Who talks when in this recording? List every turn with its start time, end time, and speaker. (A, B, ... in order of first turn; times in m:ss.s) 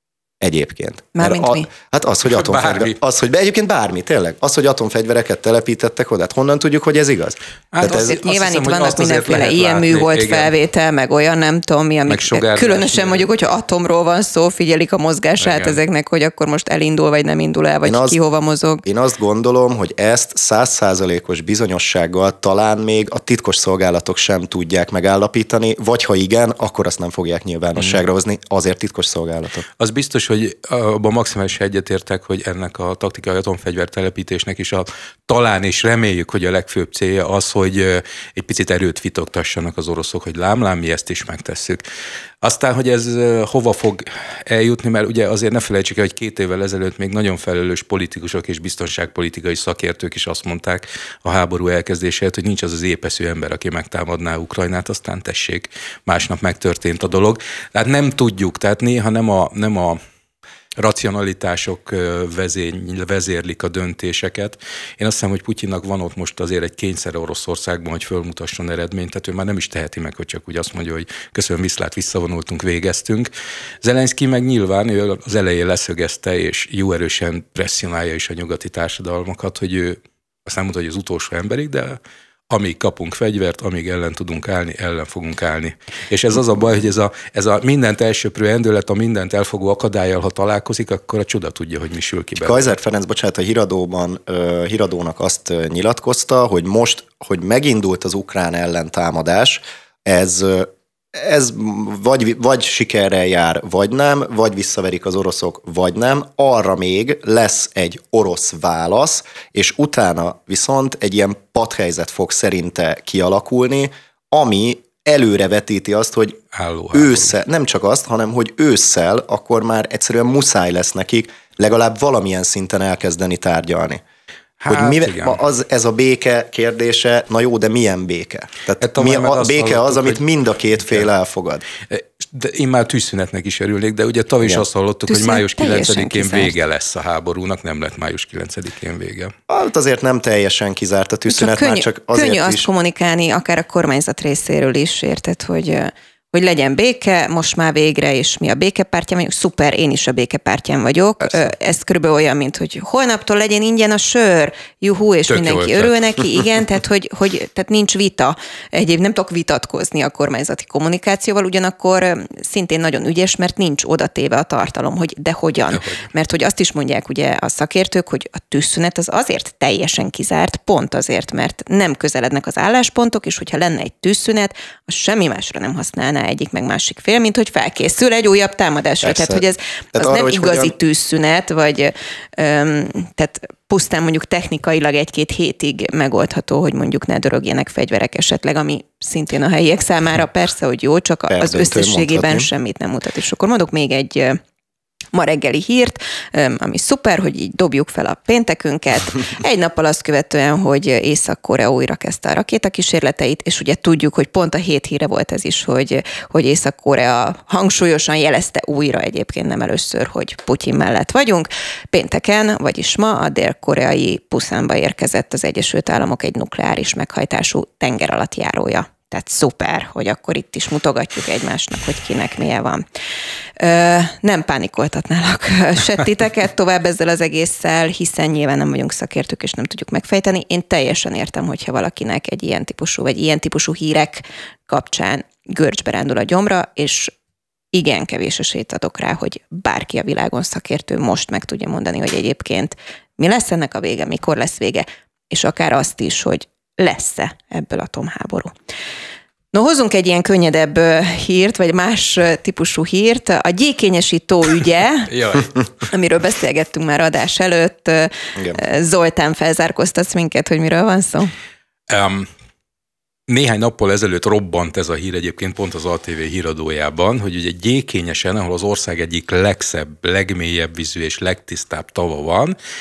0:00.4-0:08.2 A
0:01.1-0:01.7 B
0:02.3-0:03.0 C
0:07.7-0:10.5 C
0:07.9-0:18.8 B
0:12.1-0:13.3 C
0:15.4-0:15.8 C
0:17.8-0:18.2 A
0:18.8-0:29.6 A
0:29.8-0:41.8 C
0:42.4-1:00.0 C
1:00.8-1:13.3 C
1:13.8-1:32.7 C
1:32.4-1:56.4 A
1:56.5-1:57.3 C
1:56.9-2:04.0 A
2:04.6-2:05.4 C
2:04.7-2:11.6 A
2:08.8-2:10.2 C
2:11.8-2:19.3 C
2:15.1-2:16.5 B
2:19.5-2:22.7 A
2:21.3-3:14.4 B
2:35.3-2:36.0 C
2:45.7-2:46.0 C
2:59.0-2:59.4 A
2:59.9-3:00.7 A
3:11.3-3:12.5 A
3:15.1-3:42.8 B
3:43.6-3:57.1 B
3:57.7-4:08.5 B
4:09.5-4:15.1 B
4:15.1-4:15.5 C
4:15.9-4:21.3 B
4:21.9-4:22.3 C
4:23.3-4:32.6 C